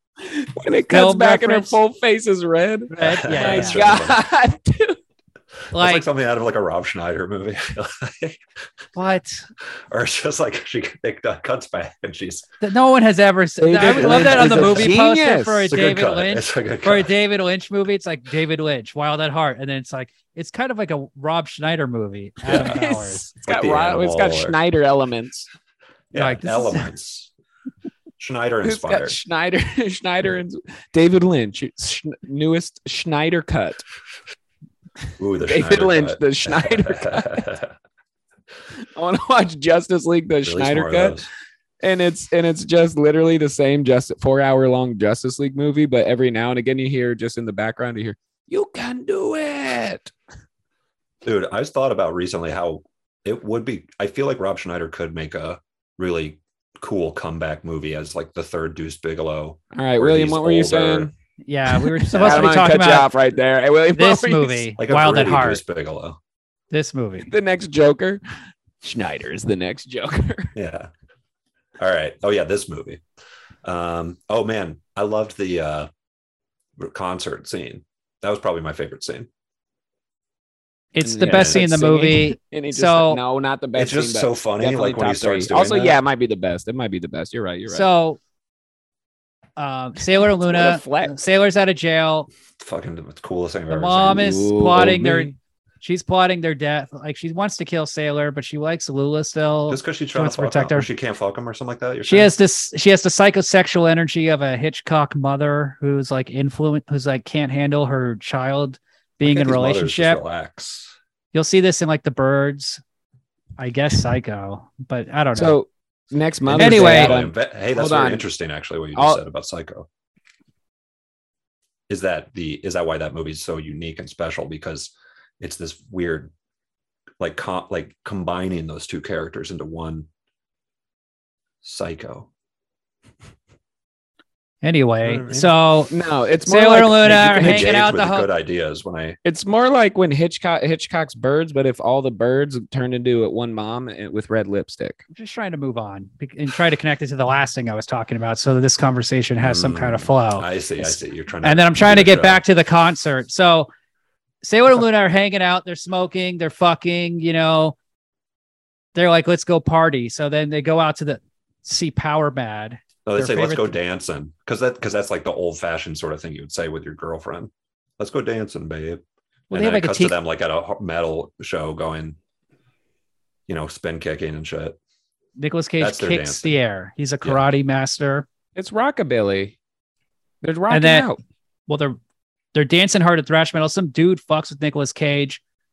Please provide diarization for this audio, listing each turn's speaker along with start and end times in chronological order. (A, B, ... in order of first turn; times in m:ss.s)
0:00.2-0:05.0 A
0:00.9-0:01.8 B
0:02.9-0:03.9 B
0:03.0-0:04.2 C
0:05.7-0:06.0 B
0:05.7-0:08.4 C
0:08.9-0:09.4 B
0:09.9-0:12.5 C
0:12.6-0:23.2 B
0:13.6-0:15.7 A
0:13.8-0:14.9 C
0:15.7-0:17.1 C
0:22.5-0:25.5 A
0:23.4-0:24.6 C
0:26.1-0:27.3 C
0:26.1-0:26.9 B
0:28.2-0:29.2 C
0:28.6-0:33.8 A
0:35.2-0:37.7 C
0:35.5-0:37.4 A
0:38.9-0:41.2 A
0:40.4-0:41.3 C
0:41.8-0:50.1 A
0:51.2-1:01.1 C
0:59.7-1:01.1 A
1:01.4-1:03.1 B
1:01.7-1:04.7 A
1:02.2-1:02.6 C
1:03.9-1:05.6 B
1:04.8-1:06.2 C
1:06.7-1:07.3 B
1:07.3-1:08.2 A
1:08.8-1:10.5 A
1:10.5-1:10.9 C
1:11.8-1:13.0 C
1:13.6-1:15.9 C
1:16.8-1:19.3 C
1:20.9-1:23.2 B
1:21.0-1:27.9 A
1:21.3-1:21.8 C
1:23.7-1:26.0 C
1:27.7-1:28.2 B
1:29.6-1:32.3 B
1:30.4-1:31.2 A
1:32.6-1:34.5 C
1:33.7-1:40.9 B
1:34.1-1:35.4 A
1:39.7-1:42.3 C
1:42.0-1:50.2 B
1:49.2-1:50.9 C
1:51.3-1:52.8 B
1:53.6-1:55.6 B
1:55.3-1:58.2 A
1:56.4-1:59.9 C
1:56.5-1:57.1 B
2:01.9-2:06.3 C
2:07.2-2:10.1 C
2:11.6-2:12.3 C
2:14.6-2:15.9 B
2:15.0-2:15.5 C
2:15.9-2:17.7 A
2:16.4-2:18.3 B
2:17.1-2:19.2 C
2:19.2-2:25.0 A
2:25.1-2:33.7 B
2:29.4-2:32.4 C
2:34.4-2:37.8 B
2:38.9-2:43.8 B
2:43.0-2:52.2 C
2:49.5-2:50.2 B
2:53.5-2:54.8 C
2:55.4-2:58.3 B
2:55.8-2:56.6 C
2:58.6-2:59.6 A
3:00.4-3:01.2 A
3:00.7-3:01.1 B
3:01.7-3:02.0 B
3:02.5-3:05.4 B